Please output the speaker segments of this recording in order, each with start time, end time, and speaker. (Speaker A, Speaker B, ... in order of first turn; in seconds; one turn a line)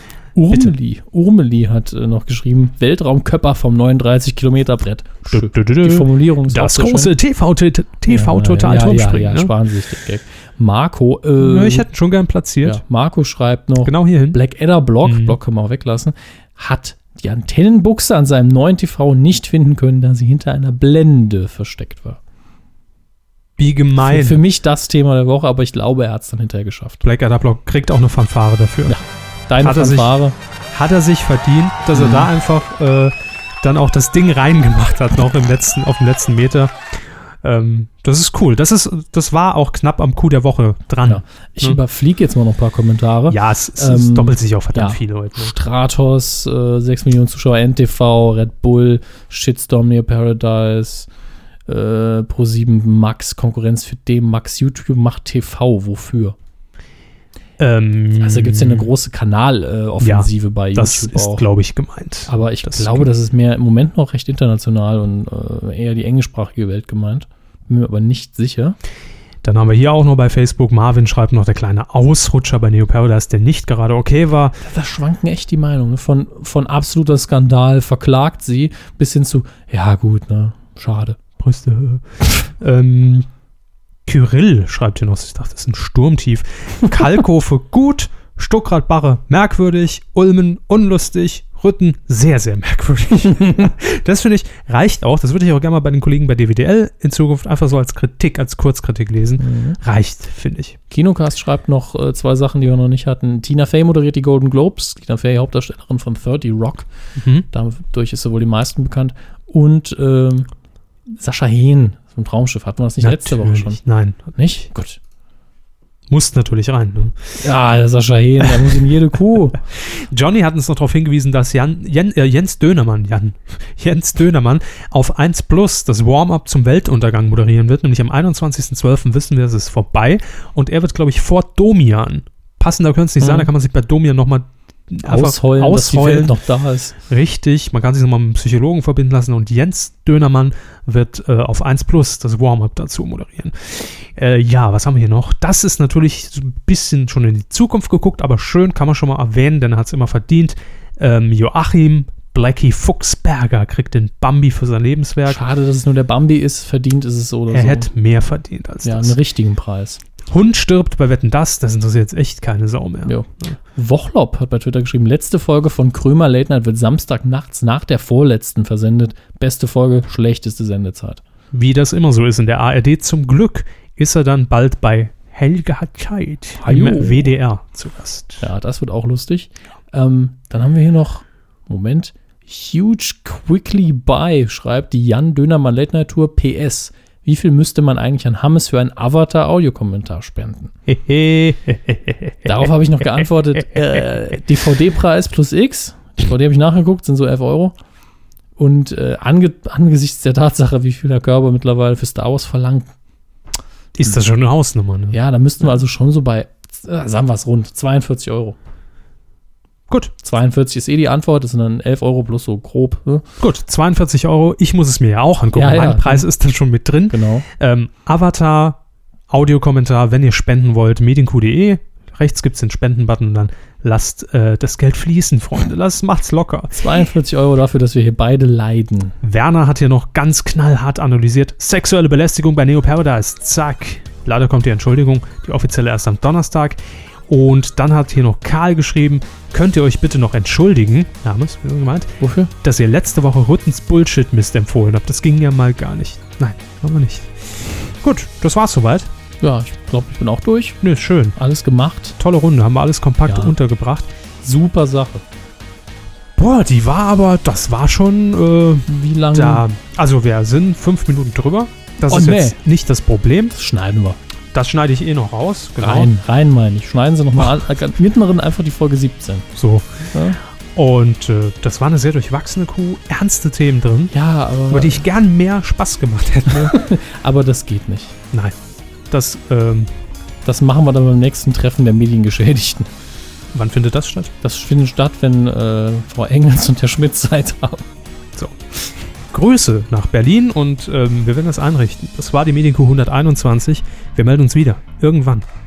Speaker A: 0.3-7.1
Speaker B: 5.3-9.5
Speaker A: 8.1-11.9
Speaker B: 11.4-12.8
Speaker A: 12.6-22.2
Speaker B: 13.8-14.4
Speaker B: 15.0-15.4
Speaker B: 23.6-24.4
Speaker A: 24.0-27.0
Speaker B: 27.0-29.0
Speaker A: 28.9-30.4
Speaker B: 29.6-30.1
Speaker B: 30.7-36.8
Speaker A: 31.9-32.3
Speaker B: 37.4-41.8
Speaker A: 41.0-51.1
Speaker B: 43.3-45.5
Speaker A: 51.7-56.4
Speaker B: 57.6-58.9
Speaker A: 58.2-61.5
Speaker B: 60.0-63.0
Speaker A: 62.3-68.8
Speaker B: 69.4-74.6
Speaker A: 74.6-81.2
Speaker B: 81.4-82.0
Speaker B: 82.6-83.3
Speaker B: 84.0-100.8
Speaker A: 99.4-99.8
Speaker A: 100.9-106.9
Speaker B: 107.2-107.5
Speaker A: 107.5-110.5
Speaker A: 111.1-113.8
Speaker B: 113.0-114.3
Speaker A: 114.3-115.0
Speaker B: 116.1-117.4
Speaker A: 117.4-119.6
Speaker B: 119.7-136.4
Speaker A: 133.2-133.5
Speaker A: 135.0-136.9
Speaker B: 137.1-155.4
Speaker A: 155.2-157.9
Speaker B: 157.5-159.2
Speaker A: 158.8-160.0
Speaker B: 160.3-163.6
Speaker A: 163.1-171.2
Speaker B: 171.5-178.4
Speaker A: 176.6-177.3
Speaker A: 178.4-190.7
Speaker B: 190.9-192.4
Speaker A: 192.4-197.8
Speaker A: 198.6-202.9
Speaker B: 203.9-205.2
Speaker A: 205.1-208.6
Speaker A: 210.2-213.2
Speaker B: 213.4-218.8
Speaker A: 215.5-216.3
Speaker A: 217.1-217.4
Speaker B: 219.3-226.8
Speaker A: 226.7-229.2
Speaker B: 229.2-249.1
Speaker A: 242.2-242.5
Speaker A: 249.4-250.8
Speaker B: 250.8-251.3
Speaker A: 251.3-252.2
Speaker B: 252.2-254.1
Speaker A: 253.2-253.5
Speaker A: 254.4-255.2
Speaker B: 256.4-263.5
Speaker A: 258.9-259.6
Speaker A: 262.1-262.6
Speaker A: 263.5-264.2
Speaker B: 264.5-266.1
Speaker A: 265.8-269.5
Speaker B: 269.6-270.1
Speaker A: 270.1-270.4
Speaker B: 270.7-274.1
Speaker A: 274.1-275.0
Speaker B: 274.7-276.8
Speaker A: 276.5-278.1
Speaker B: 279.1-279.9
Speaker A: 280.4-282.9
Speaker B: 283.5-284.3
Speaker A: 284.4-287.9
Speaker B: 289.3-295.4